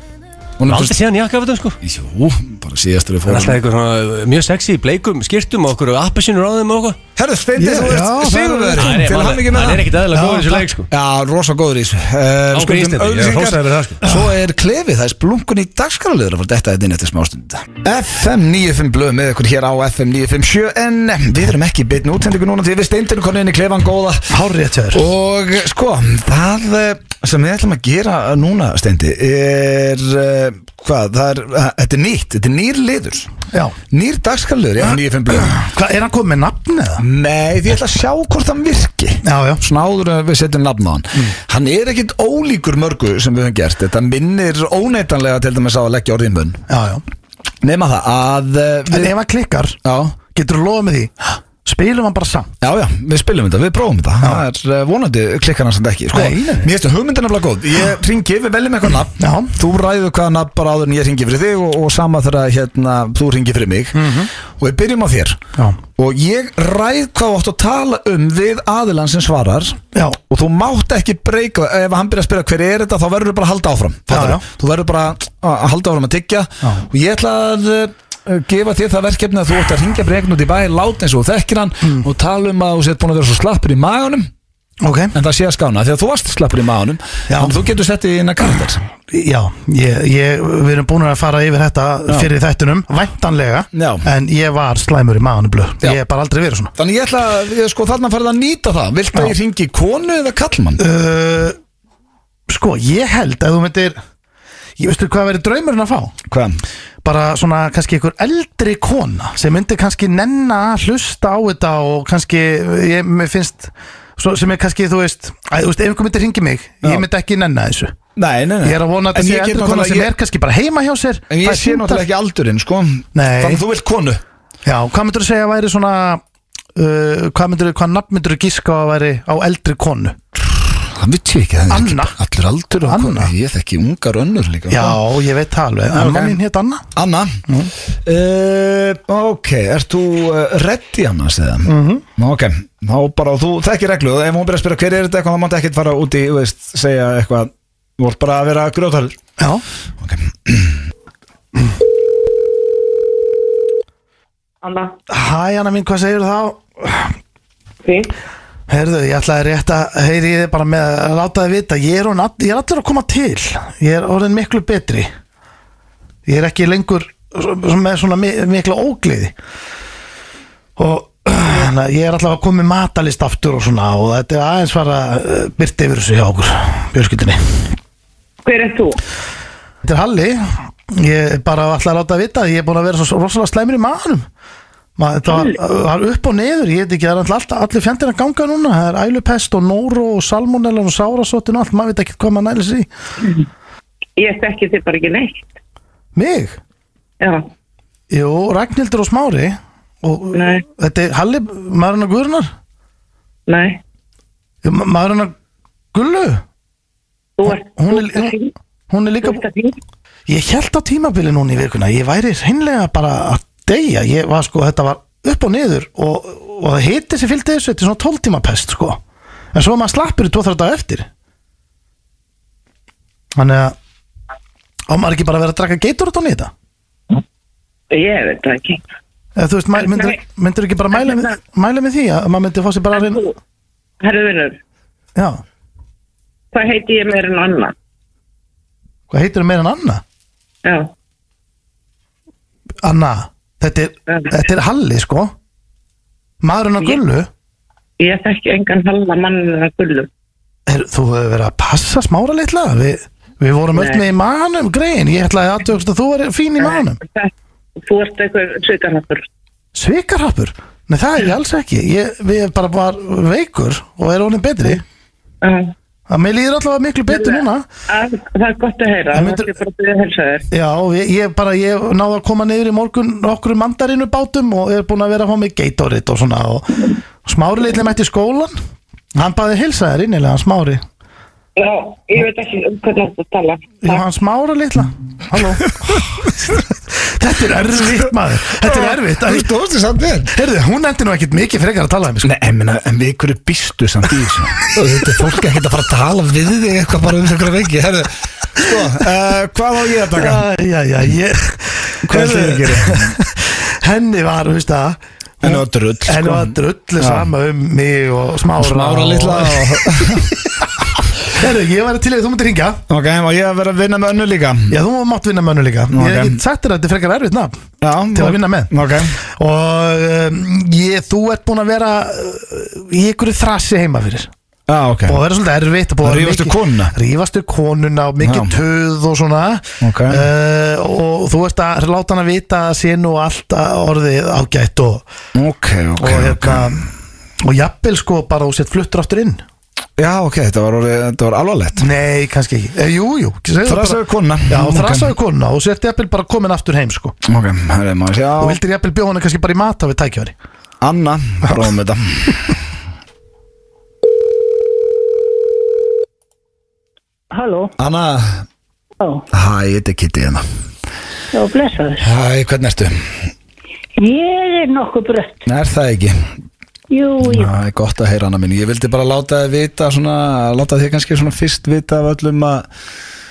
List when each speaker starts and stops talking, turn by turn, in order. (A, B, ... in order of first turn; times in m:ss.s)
0:00.6-0:00.9 A
0:00.7-0:01.8 B
0:01.8-0:03.6 A
0:03.3-0:07.0 B
0:07.2-0:09.9 A
0:07.6-0:09.1 C
0:08.7-0:10.9 B
0:10.1-0:10.7 C
0:10.9-0:24.3 A
0:12.5-0:14.0 B
0:14.0-0:14.3 C
0:24.3-0:25.0 C
0:24.9-0:33.3 A
0:33.5-0:33.8 C
0:33.9-0:35.6 A
0:35.3-0:37.0 C
0:37.0-0:46.6 A
0:39.2-0:39.6 C
0:46.7-0:47.0 C
0:47.6-0:49.1 A
0:48.9-0:52.5 C
0:49.8-0:50.2 A
0:52.6-1:05.4 A
0:56.1-0:56.7 C
0:59.2-0:59.5 C
1:03.9-1:04.3 C
1:06.0-1:24.3 A
1:09.9-1:10.2 C
1:14.1-1:14.4 C
1:24.8-1:25.1 C
1:25.1-1:28.8 A
1:27.3-1:27.6 C
1:29.1-1:36.7 C
1:33.7-1:34.1 A
1:36.7-1:40.8 A
1:40.8-1:41.6 C
1:42.5-1:44.0 C
1:44.8-1:46.1 C
1:46.3-1:46.6 A
1:47.0-1:57.9 C
1:58.2-2:00.1 A
1:58.6-2:02.1 C
2:01.3-2:04.2 A
2:03.1-2:03.6 C
2:04.6-2:06.2 C
2:06.7-2:10.2 C
2:10.9-2:15.0 A
2:11.7-2:12.1 C
2:12.8-2:13.3 C
2:14.7-2:16.8 C
2:15.9-2:16.4 A
2:16.9-2:17.4 A
2:18.0-2:29.2 A
2:21.6-2:22.0 C
2:29.4-2:29.6 C
2:30.0-2:30.8 A
2:34.6-2:34.9 D
2:35.1-2:37.1 C
2:37.8-2:38.1 D
2:38.7-2:45.1 C
2:46.2-2:49.3 C
2:50.8-2:57.7 C
2:58.4-2:59.0 D
2:59.8-3:04.2 C
3:05.0-3:12.9 C
3:05.3-3:05.6 D
3:14.2-3:15.4 D
3:16.1-3:16.6 C
3:18.1-3:22.5 C
3:20.3-3:20.6 D
3:23.5-3:23.8 D
3:24.6-3:25.3 C
3:25.9-3:26.4 C
3:27.4-3:28.5 D
3:27.4-3:28.3 C
3:28.9-3:29.4 C
3:29.2-3:29.8 D
3:30.3-3:39.0 C
3:39.5-3:41.1 C
3:43.3-3:43.7 C
3:44.9-3:46.5 C
3:47.9-3:48.8 D
3:49.4-3:53.2 C
3:49.8-3:50.2 D
3:51.0-3:51.3 D
3:52.9-3:53.3 D
3:54.0-3:54.6 D
3:55.2-3:55.4 C
3:56.5-3:57.7 D
3:59.1-4:00.0 C
4:00.6-4:00.9 D
4:02.8-4:05.3 C
4:06.4-4:07.3 C
4:08.0-4:10.1 D
4:10.7-4:17.0 C
4:13.7-4:14.0 D
4:16.6-4:17.3 D
4:17.8-4:19.2 D
4:19.7-4:24.8 C
4:25.4-4:25.7 D
4:26.1-4:27.7 C
4:27.1-4:30.4 D
4:29.1-4:29.5 C
4:30.5-4:38.5 C
4:39.1-4:40.8 C
4:41.6-4:44.0 D
4:43.8-4:45.9 C
4:45.9-4:46.3 A
4:46.9-4:49.5 C
4:48.5-4:50.3 A
4:50.3-4:52.3 C
4:52.2-5:00.4 A
5:00.1-5:10.3 C
5:02.0-5:03.2 A
5:05.4-5:07.3 A
5:08.6-5:10.3 A
5:11.2-5:12.8 C
5:12.9-5:14.8 A
5:14.7-5:17.6 C
5:15.9-5:16.4 A
5:17.8-5:19.2 A
5:18.1-5:24.3 C
5:24.7-5:25.2 A
5:25.0-5:35.0 C
5:26.0-5:26.9 A
5:28.2-5:28.5 A
5:29.8-5:30.2 A
5:35.3-5:36.9 A
5:36.0-5:36.8 C
5:37.4-5:39.4 C
5:40.0-5:41.8 A
5:41.8-5:47.2 C
5:43.6-5:45.1 A
5:47.2-5:48.6 A
5:48.4-5:50.3 C
5:50.8-5:52.5 A
5:57.3-5:57.7 E
5:57.8-5:58.4 A
5:59.3-6:00.4 A
6:01.3-6:02.0 E
6:02.0-6:02.9 A
6:04.0-6:05.4 E
6:05.4-6:06.2 A
6:06.9-6:07.5 E
6:07.2-6:12.6 A